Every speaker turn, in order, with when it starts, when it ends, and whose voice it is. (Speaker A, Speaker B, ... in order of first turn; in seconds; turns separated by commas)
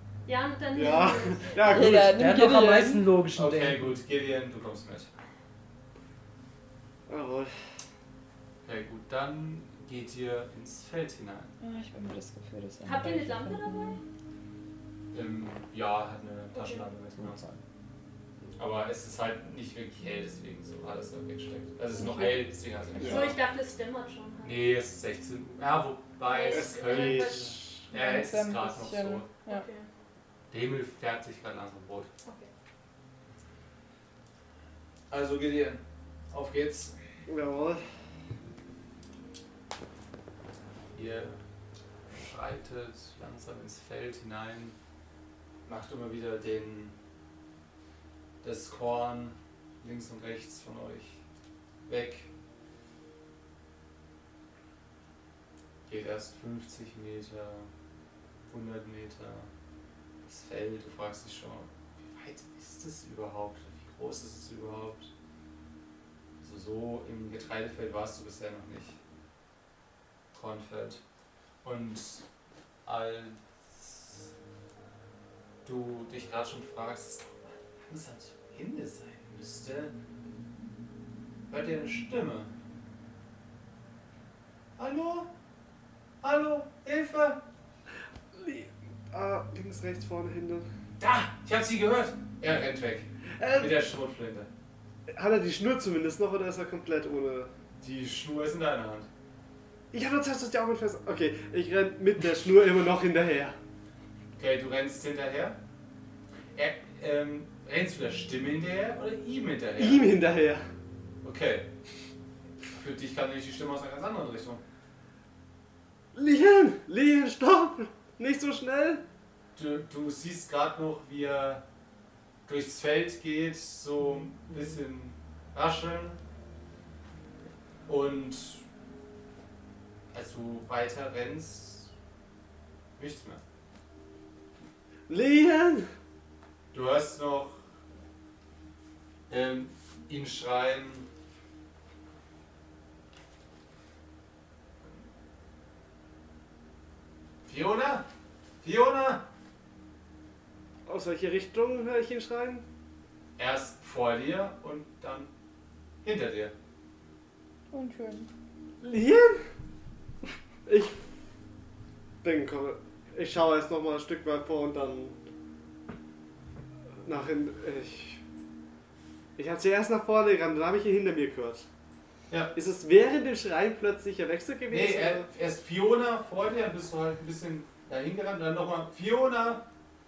Speaker A: 0.3-1.6, Speaker B: 0.7-2.2, Speaker C: 1.6-3.1, Speaker D: 1.7-4.0, Speaker E: 3.4-5.1, Speaker B: 7.1-7.5, Speaker E: 8.6-11.6, Speaker C: 11.6-14.0, Speaker A: 12.8-14.0, Speaker E: 15.1-17.4, Speaker A: 16.5-16.9, Speaker D: 17.1-17.6, Speaker E: 18.6-23.4, Speaker C: 21.9-22.5, Speaker A: 23.0-24.7, Speaker E: 24.4-29.3, Speaker A: 26.2-27.5, Speaker B: 26.5-27.9, Speaker C: 27.9-29.6, Speaker A: 29.4-29.9, Speaker E: 30.5-32.1, Speaker A: 32.2-32.5, Speaker E: 35.1-37.0, Speaker B: 37.3-37.8, Speaker E: 40.9-41.4, Speaker E: 42.1-44.8, Speaker E: 45.6-46.9, Speaker E: 48.4-51.2, Speaker E: 51.9-52.3, Speaker E: 55.9-57.7, Speaker E: 58.5-59.5, Speaker E: 60.3-65.1, Speaker E: 66.4-69.0, Speaker E: 70.3-71.0, Speaker E: 71.6-72.2, Speaker E: 72.8-74.3, Speaker E: 75.6-79.9, Speaker E: 81.5-82.5, Speaker E: 84.8-85.3, Speaker E: 86.2-87.4, Speaker B: 88.3-90.7, Speaker E: 91.0-94.5, Speaker B: 93.4-93.8, Speaker B: 95.1-97.5, Speaker E: 97.8-99.1, Speaker B: 99.9-103.6, Speaker E: 104.4-105.6, Speaker E: 106.5-110.1, Speaker B: 109.8-110.7, Speaker E: 111.2-111.7, Speaker E: 112.7-114.6, Speaker B: 116.1-119.0, Speaker E: 119.6-121.6, Speaker E: 122.5-126.2, Speaker E: 127.9-128.6, Speaker E: 130.1-131.9, Speaker E: 133.0-133.4, Speaker B: 135.1-135.9, Speaker E: 136.7-137.6, Speaker E: 139.3-141.1, Speaker E: 147.4-148.1, Speaker E: 148.6-149.2, Speaker B: 150.8-152.6, Speaker E: 153.4-155.3, Speaker E: 156.0-156.5, Speaker C: 157.7-158.3, Speaker B: 158.8-159.4, Speaker B: 160.7-160.9, Speaker B: 162.2-165.2, Speaker B: 167.0-168.2, Speaker B: 169.3-171.7, Speaker B: 172.6-175.3, Speaker E: 174.7-179.7